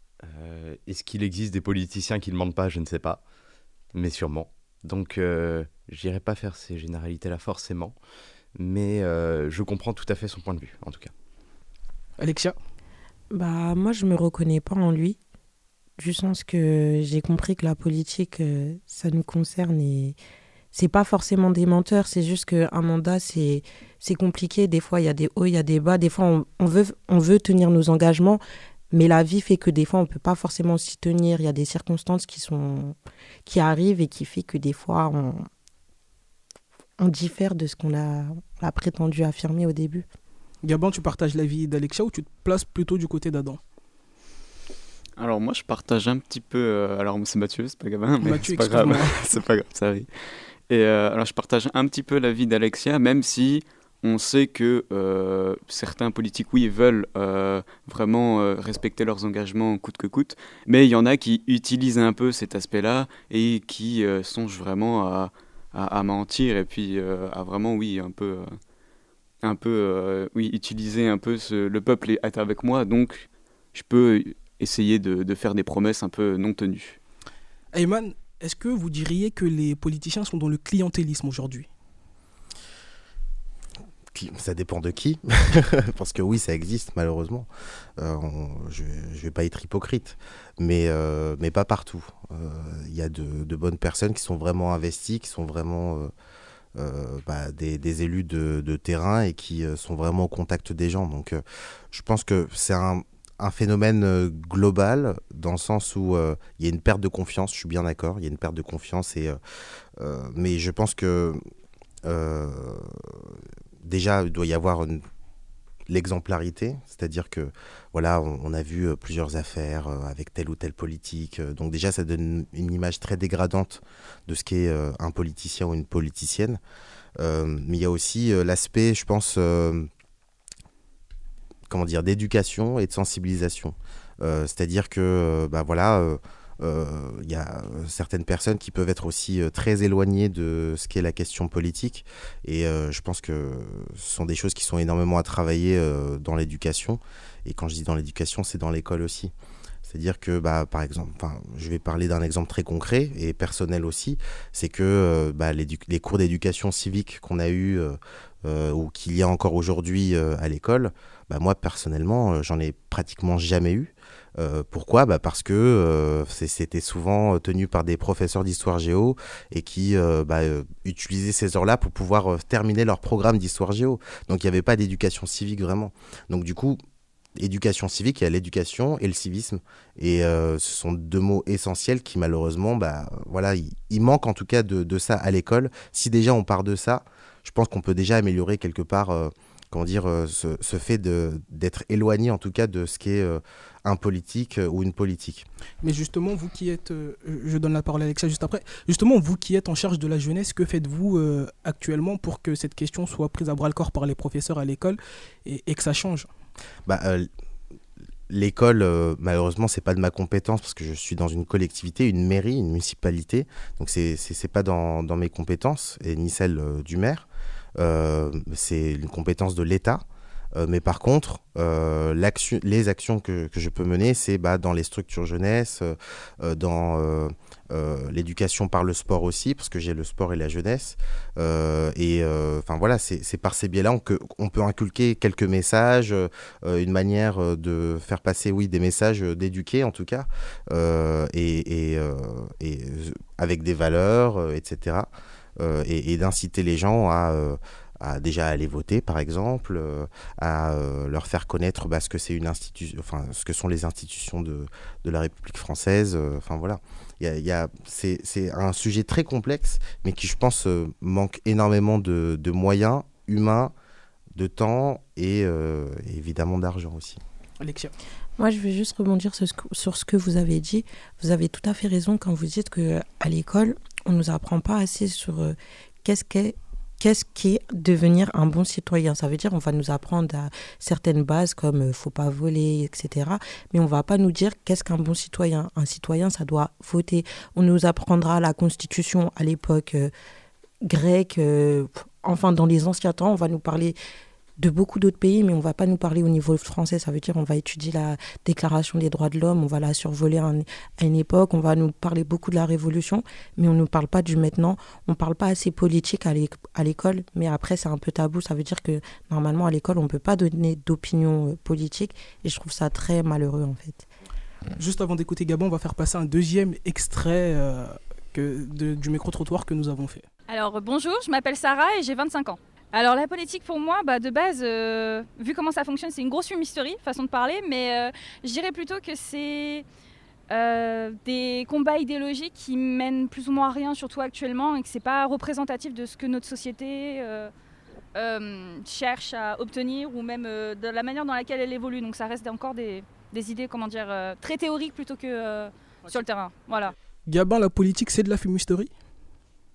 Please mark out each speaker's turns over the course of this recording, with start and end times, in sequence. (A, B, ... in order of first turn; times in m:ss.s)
0:00.2-0:03.2 A
0:03.9-0:08.0 A
0:08.6-0:11.1 A
0:12.2-0:12.6 B
0:13.3-0:15.2 C
0:16.0-0:20.2 C
0:20.7-0:28.4 C
0:28.9-0:33.0 C
0:33.5-0:35.5 C
0:37.0-0:40.1 C
0:40.6-0:43.6 B
0:45.2-1:08.6 D
0:48.2-0:49.2 B
1:09.4-1:17.0 D
1:17.7-1:21.7 B
1:24.1-1:36.1 E
1:36.8-1:49.4 E
1:50.0-1:51.4 E
1:52.0-1:55.0 E
1:55.9-2:06.6 E
2:07.2-2:09.9 E
2:11.7-2:29.3 E
2:29.8-2:56.8 E
2:57.4-3:15.5 E
3:15.8-3:26.3 B
3:26.9-3:27.3 E
3:28.3-3:40.0 E
3:40.6-4:23.7 E
4:24.4-4:27.2 E
4:27.6-4:27.9 B
4:28.4-4:50.1 C
4:50.8-4:54.0 C
4:54.6-5:14.1 C
5:14.8-5:20.3 B
5:20.5-5:29.8 F
5:30.5-5:37.5 F
5:38.2-5:46.9 F
5:47.3-5:48.9 B